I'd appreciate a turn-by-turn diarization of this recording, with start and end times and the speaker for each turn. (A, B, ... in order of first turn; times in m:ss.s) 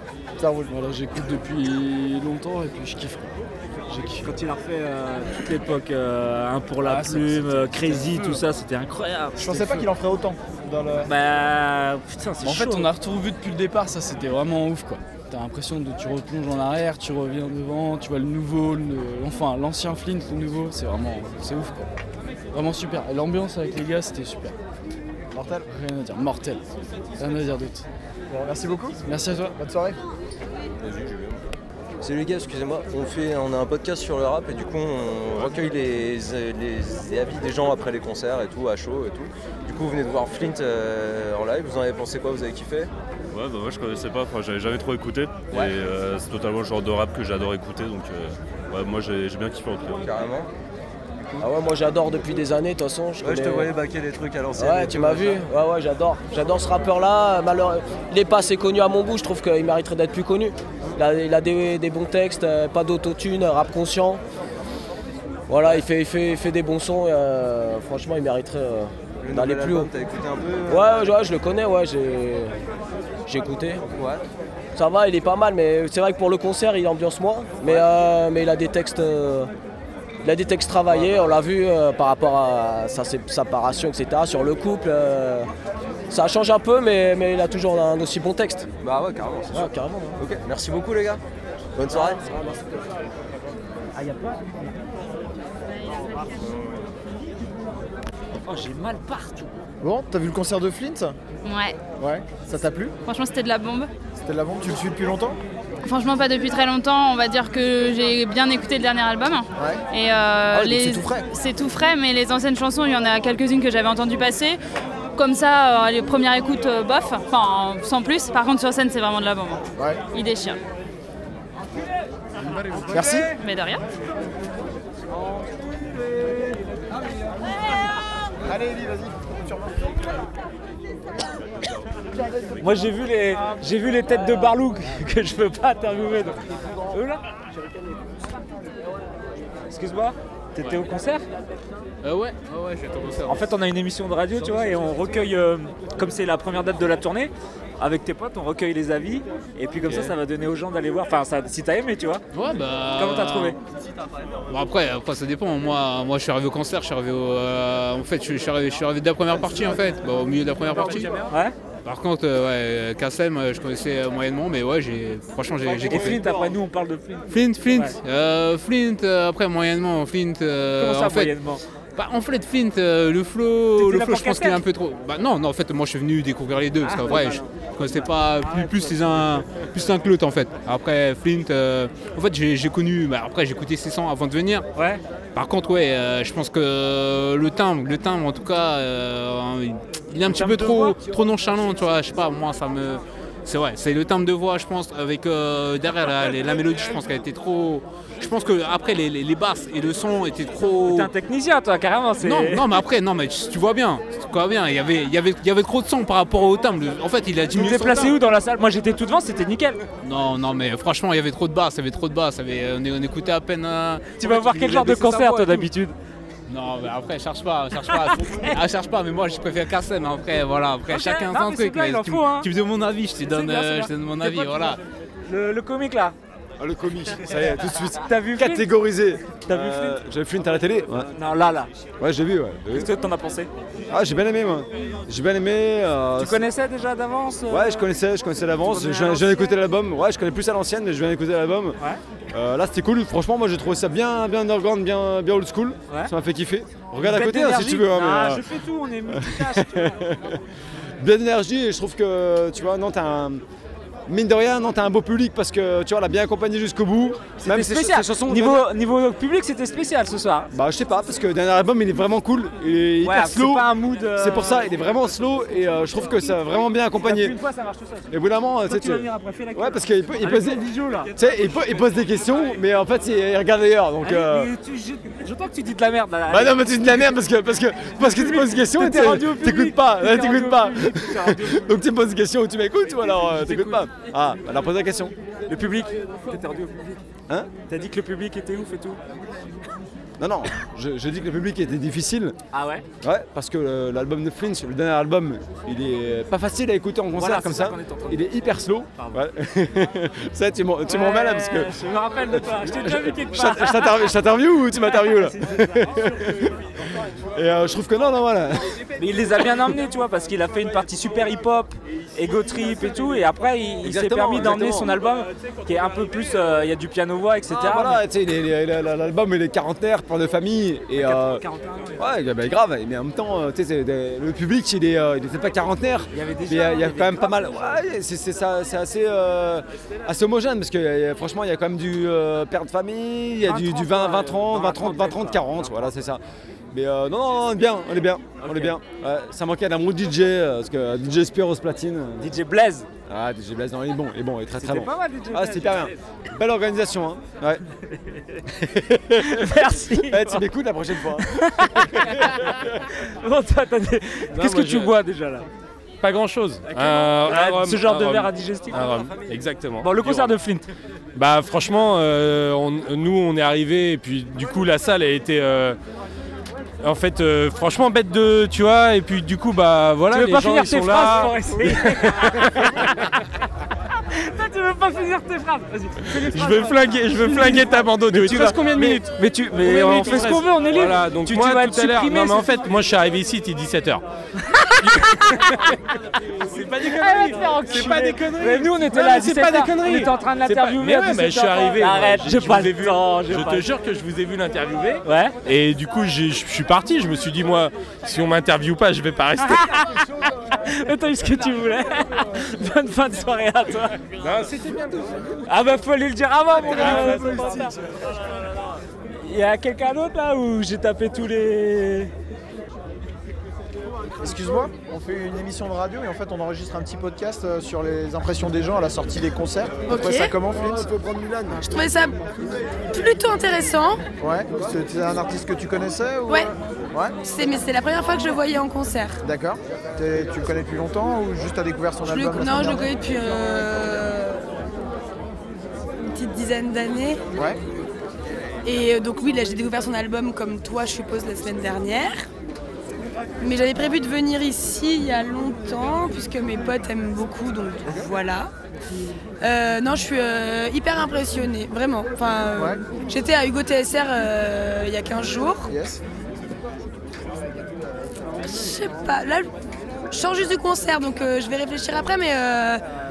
0:00.4-0:00.7 A
0:00.7-0:03.3 B
0:03.9-0:04.3 B
0:04.2-0:09.5 C
0:06.8-0:08.2 B
0:09.4-0:11.1 A
0:09.5-0:09.8 B
0:11.0-0:12.9 C
0:12.4-0:21.9 B
0:22.5-0:24.6 B
0:25.3-0:25.6 A
0:25.7-0:26.6 B
0:27.2-0:27.9 B
0:28.3-0:30.0 A
0:29.1-0:29.5 B
0:30.8-0:31.4 D
0:32.0-0:42.9 D
0:43.3-0:50.2 E
0:45.5-0:45.8 D
0:50.0-0:50.5 D
0:51.2-0:51.5 D
0:51.4-0:53.7 F
0:53.2-0:55.5 D
0:54.6-1:04.2 F
1:05.5-1:09.9 F
1:09.2-1:11.2 D
1:10.7-1:12.6 F
1:13.2-1:13.8 F
1:13.8-1:14.2 D
1:14.7-1:19.5 F
1:20.2-1:25.5 F
1:20.9-1:21.3 D
1:26.1-1:28.7 F
1:28.8-1:31.2 D
1:29.5-1:30.2 F
1:31.8-1:32.2 D
1:31.9-1:32.4 F
1:34.0-1:34.3 C
1:38.4-1:39.5 C
1:39.8-1:41.2 A
1:41.4-1:41.8 G
1:42.0-1:42.9 A
1:43.1-1:43.9 G
1:44.2-1:45.4 A
1:45.8-1:54.6 G
1:50.5-1:51.2 A
1:55.2-2:00.6 G
2:02.9-2:03.3 A
2:03.4-2:03.8 G
2:08.4-2:10.0 A
2:12.6-2:17.2 C
2:19.7-2:21.2 C
2:22.0-2:23.3 H
2:23.3-2:32.2 C
2:29.8-2:30.1 H
2:32.3-2:33.5 H
2:32.9-2:33.6 C
2:34.5-2:41.2 H
2:41.3-2:41.5 C
2:41.8-2:46.2 H
2:45.6-2:46.6 I
2:45.8-2:48.0 C
2:47.3-2:51.3 H
2:50.8-2:51.6 C
2:52.0-3:04.6 H
2:53.7-2:54.6 C
2:56.8-2:57.4 C
2:58.5-2:59.1 C
3:04.7-3:05.0 C
3:05.3-3:21.1 H
3:10.2-3:11.0 C
3:20.8-3:22.7 C
3:22.2-3:28.1 H
3:27.5-3:29.8 C
3:30.0-3:35.6 H
3:34.2-3:36.0 C
3:36.5-3:44.8 H
3:37.9-3:38.5 C
3:40.9-3:42.5 C
3:43.2-3:46.2 C
3:46.6-3:51.1 I
3:47.9-3:48.7 C
3:49.4-3:50.0 C
3:51.1-3:51.7 C
3:52.0-3:52.9 I
3:52.7-3:53.5 C
3:53.9-3:56.4 I
3:56.2-3:57.9 C
3:57.5-4:01.8 I
3:58.6-3:59.5 C
4:02.3-4:08.4 I
4:07.0-4:09.9 C
4:09.1-4:10.4 I
4:11.0-4:13.4 I
4:14.1-4:18.6 I
4:17.4-4:20.5 C
4:20.5-4:27.4 I
4:23.0-4:24.8 C
4:27.0-4:28.0 C
4:28.1-4:34.5 I
4:28.7-4:31.1 C
4:34.0-4:36.8 C
4:36.3-4:45.1 I
4:38.0-4:41.7 C
4:43.1-4:43.8 C
4:45.5-4:47.0 C
4:47.7-4:49.0 C
4:50.2-4:52.4 I
4:52.5-4:52.8 C
4:53.0-5:01.8 I
4:57.1-4:58.3 C
4:58.9-4:59.2 C
5:00.8-5:04.1 C
5:02.3-5:06.5 I
5:04.8-5:05.7 C
5:07.3-5:08.8 I
5:09.0-5:18.0 C
5:13.8-5:15.0 I
5:17.5-5:21.4 I
5:21.0-5:22.0 C
5:22.0-5:42.3 I
5:26.1-5:27.8 C
5:33.4-5:35.8 C
5:38.4-5:38.7 C
5:42.2-5:42.9 C
5:43.1-5:47.6 I
5:44.6-5:45.9 C
5:48.5-5:52.3 I
5:49.2-5:50.4 C
5:51.2-5:55.5 C
5:56.0-5:59.8 J
5:56.6-5:59.1 C
5:59.8-6:00.7 C
6:01.2-6:05.7 J
6:06.8-6:11.3 J
6:10.1-6:13.0 C
6:14.1-6:22.7 C
6:16.3-6:19.0 J
6:19.6-6:24.0 J
6:24.5-6:25.8 C
6:26.6-6:33.7 C
6:27.2-6:39.5 J
6:35.0-6:35.4 C
6:39.4-6:44.0 C
6:44.2-6:44.7 J
6:45.4-6:47.8 C
6:49.2-6:52.1 C
6:54.2-7:00.9 A
6:59.9-7:00.3 K
7:00.8-7:01.6 I
7:01.6-7:02.2 K
7:02.9-7:04.0 K
7:04.2-7:07.1 A
7:07.2-7:09.2 K
7:09.2-7:12.9 A
7:12.1-7:14.4 K
7:16.1-7:17.2 K
7:18.6-7:22.3 K
7:23.4-7:28.5 K
7:29.4-7:35.7 K
7:32.6-7:32.8 A
7:35.6-7:36.0 A
7:38.4-7:39.5 K
7:40.1-7:42.8 K